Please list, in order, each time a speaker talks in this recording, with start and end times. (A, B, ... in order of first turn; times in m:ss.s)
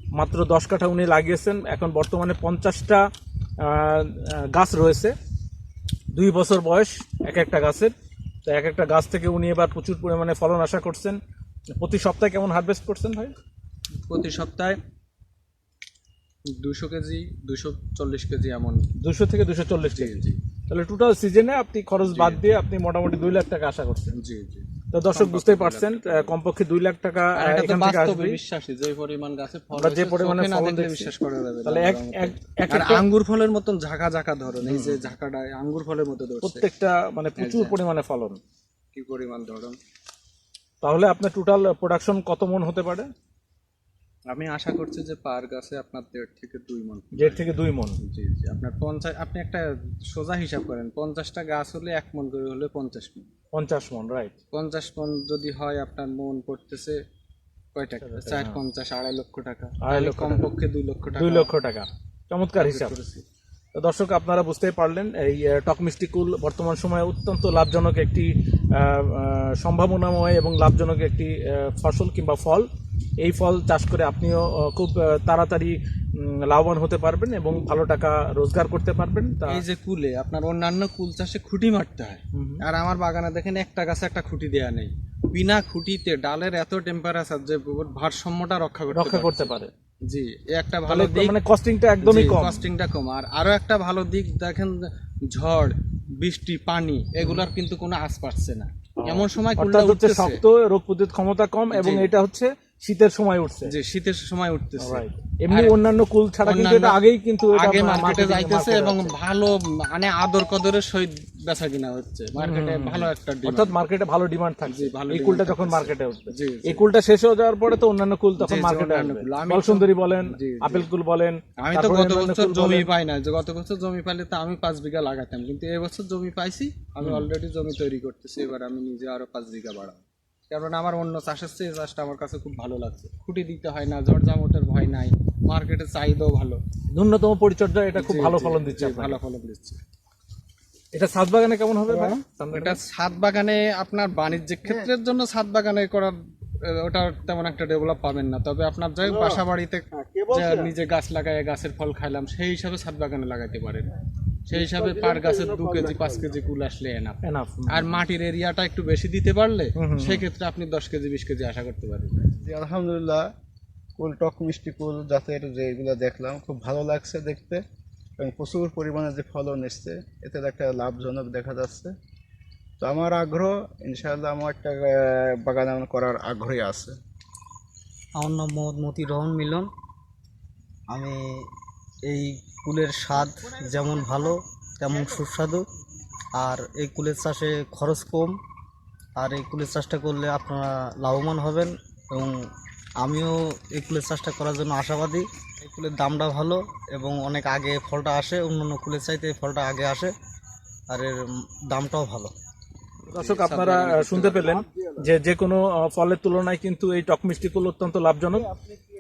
0:00.1-0:03.1 A
0:03.6-0:05.1 A
0:06.1-0:07.9 A
0:08.4-0:11.2 A
0:11.8-0:13.4 A
0:14.0-0:14.8 B
0:16.5-0:18.9 B
0:19.0-0:24.1 A
0:19.9-0:20.4 B
0:22.1-0:22.4 B
0:24.1-0:26.4 B
0:24.9-0:28.4 A
0:27.4-0:36.7 B
0:29.7-0:31.1 A
0:31.6-0:33.0 A
0:34.6-0:35.1 A
0:36.4-0:38.4 A
0:37.4-0:37.8 B
0:38.9-0:39.8 B
0:40.8-0:43.1 A
0:44.3-0:53.3 B
0:47.1-0:48.0 A
0:53.5-0:54.4 A
0:54.5-0:57.0 B
0:57.8-1:01.5 B
0:58.0-0:58.6 A
0:59.8-1:00.5 A
1:01.1-1:03.0 A
1:02.6-1:03.2 B
1:03.8-1:12.7 A
1:13.2-1:19.6 A
1:19.5-1:31.4 B
1:22.3-1:22.6 A
1:28.9-1:29.7 A
1:30.9-1:32.6 A
1:32.0-1:40.4 B
1:37.2-1:37.5 A
1:39.0-1:43.7 A
1:41.7-1:42.1 B
1:43.6-1:45.8 B
1:44.8-1:49.1 A
1:46.4-1:53.8 B
1:52.4-2:02.9 A
1:54.6-1:56.9 B
1:58.4-2:00.9 B
2:01.6-2:16.6 B
2:07.0-2:07.3 A
2:16.9-2:19.2 A
2:17.9-2:19.8 B
2:20.9-2:22.8 A
2:21.9-2:33.9 B
2:34.5-2:42.4 B
2:37.2-2:38.0 A
2:39.8-2:40.2 A
2:42.4-2:43.3 C
2:44.0-2:47.6 C
2:48.2-2:52.0 C
2:52.8-2:57.0 C
2:58.2-2:59.7 D
3:00.9-3:01.5 D
3:02.0-3:05.6 D
3:06.4-3:08.4 D
3:09.2-3:12.5 D
3:13.0-3:20.1 D
3:20.9-3:22.3 D
3:23.1-3:28.5 A
3:23.2-3:24.5 B